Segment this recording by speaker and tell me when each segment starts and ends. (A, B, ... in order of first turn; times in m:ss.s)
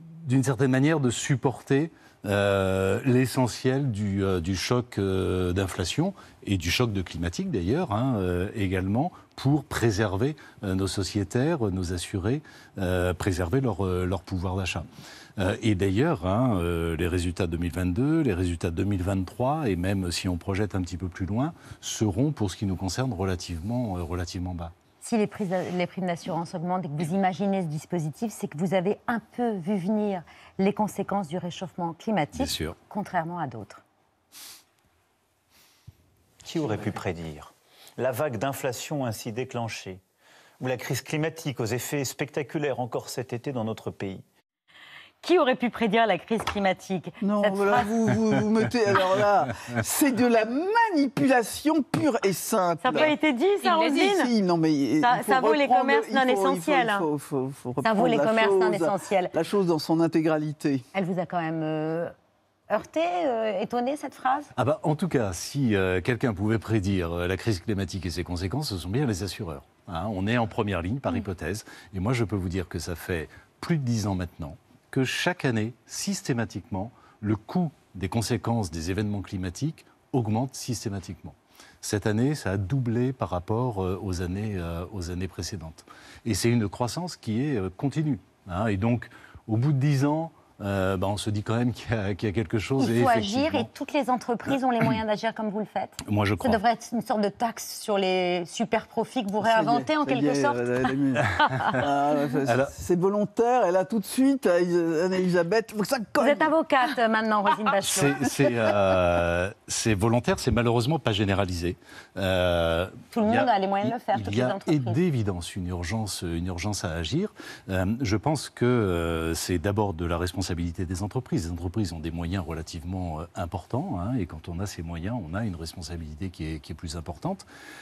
0:00.2-0:14.9 A
0:15.4-0:24.7 A
0:25.0-0:33.8 B
0:32.4-0:32.8 A
0:36.4-0:40.0 C
0:40.6-0:44.2 C
0:45.2-0:47.9 B
0:47.2-0:53.2 D
0:52.8-0:54.3 B
0:53.7-1:00.8 D
0:55.0-0:57.1 B
0:57.8-0:59.3 B
1:00.9-1:02.1 B
1:02.7-1:04.5 B
1:04.6-1:33.7 A
1:32.8-1:40.9 B
1:36.1-1:36.6 A
1:39.4-1:46.5 D
1:42.5-1:42.7 A
1:46.2-1:48.3 B
1:47.8-2:07.4 A
1:53.1-1:55.0 B